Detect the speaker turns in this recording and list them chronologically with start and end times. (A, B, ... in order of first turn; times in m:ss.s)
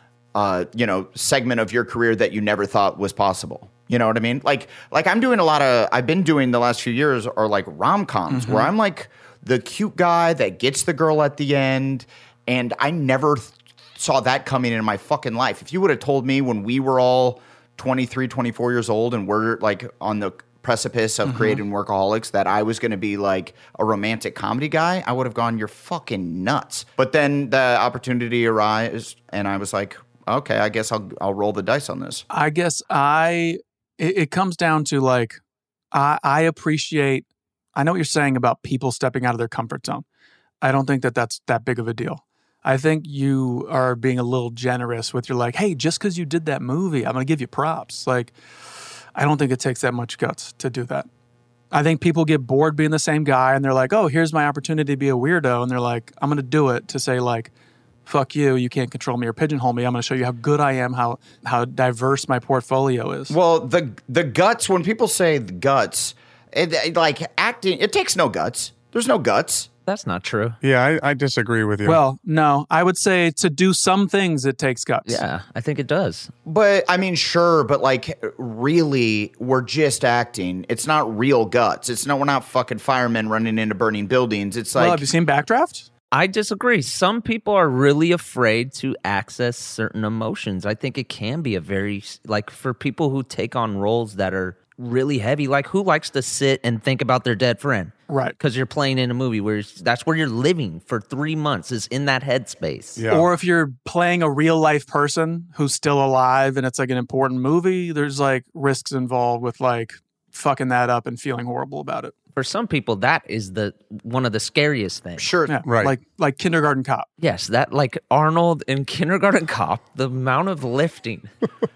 0:00.3-0:32.2 A
0:08.3-0:08.7 B
0:21.2-0:21.6 B
0:32.3-0:35.4 B
0:35.9-0:40.0 B
0:40.6-0:48.3 B
0:49.2-0:51.1 B
0:51.7-0:57.5 B
0:58.0-1:03.3 B
1:03.3-1:09.7 A
1:09.9-1:10.6 C
1:10.6-1:12.0 D
1:11.8-1:15.2 B
1:15.0-1:16.3 C
1:16.4-1:25.0 A
1:24.8-1:25.9 B
1:26.1-1:43.0 C
1:38.1-1:38.4 B
1:43.0-1:43.3 D
1:43.1-1:52.1 B
1:52.3-1:55.3 C
1:55.2-1:55.6 A
1:55.5-1:57.1 B
1:55.6-1:55.9 D
1:57.2-2:01.3 C